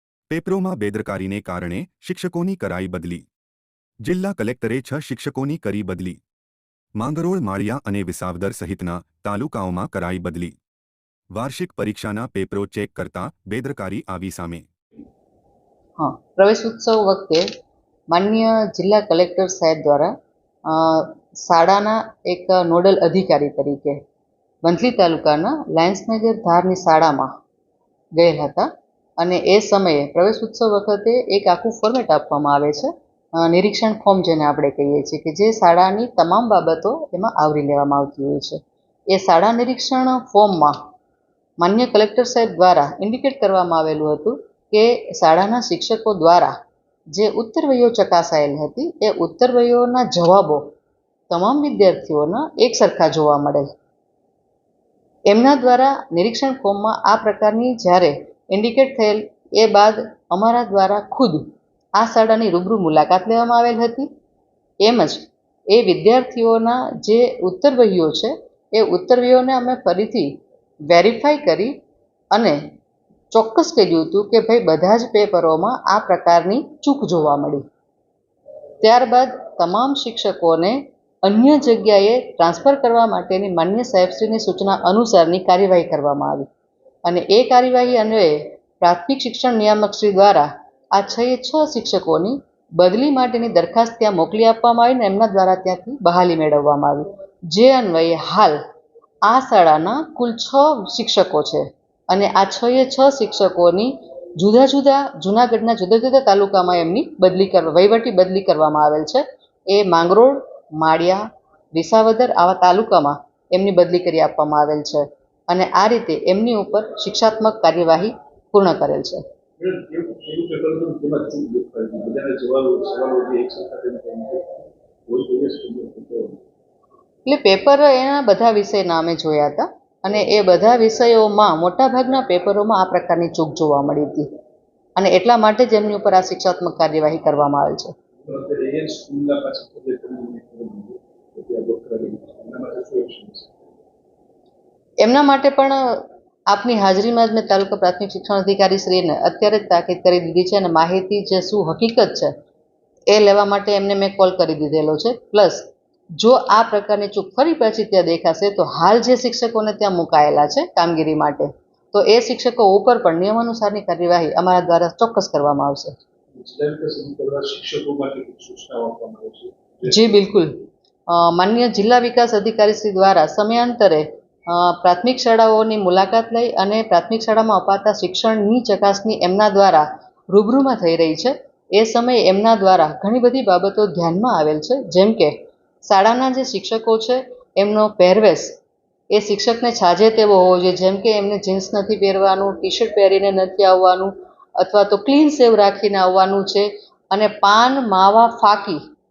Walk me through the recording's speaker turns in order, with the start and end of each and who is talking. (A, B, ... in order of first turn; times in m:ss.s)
0:00.3-0:03.2 A
0:04.0-0:06.2 A
0:07.0-0:10.5 A
0:11.3-0:14.7 A
0:16.0-0:17.4 B
0:18.1-0:20.1 B
0:20.7-0:24.0 B
0:24.6-0:27.3 B
0:28.2-0:38.6 B
0:39.1-0:40.7 B
0:41.6-0:46.5 B
0:47.1-0:50.7 B
0:51.3-0:53.7 B
0:55.3-1:01.4 B
1:02.0-1:04.1 B
1:04.8-1:10.3 B
1:10.9-1:11.7 B
1:12.3-1:12.6 B
1:13.3-1:17.6 B
1:18.8-1:26.5 B
1:27.0-1:38.6 B
1:39.2-1:59.2 B
1:59.6-2:04.5 C
2:05.1-2:06.4 C
2:07.2-2:14.3 B
2:15.0-2:17.9 B
2:18.2-2:23.5 C
2:25.0-2:32.3 B
2:33.1-2:45.9 B
2:46.3-2:50.2 C
2:49.8-2:50.5 B
2:51.1-3:08.5 B
3:09.1-3:18.8 B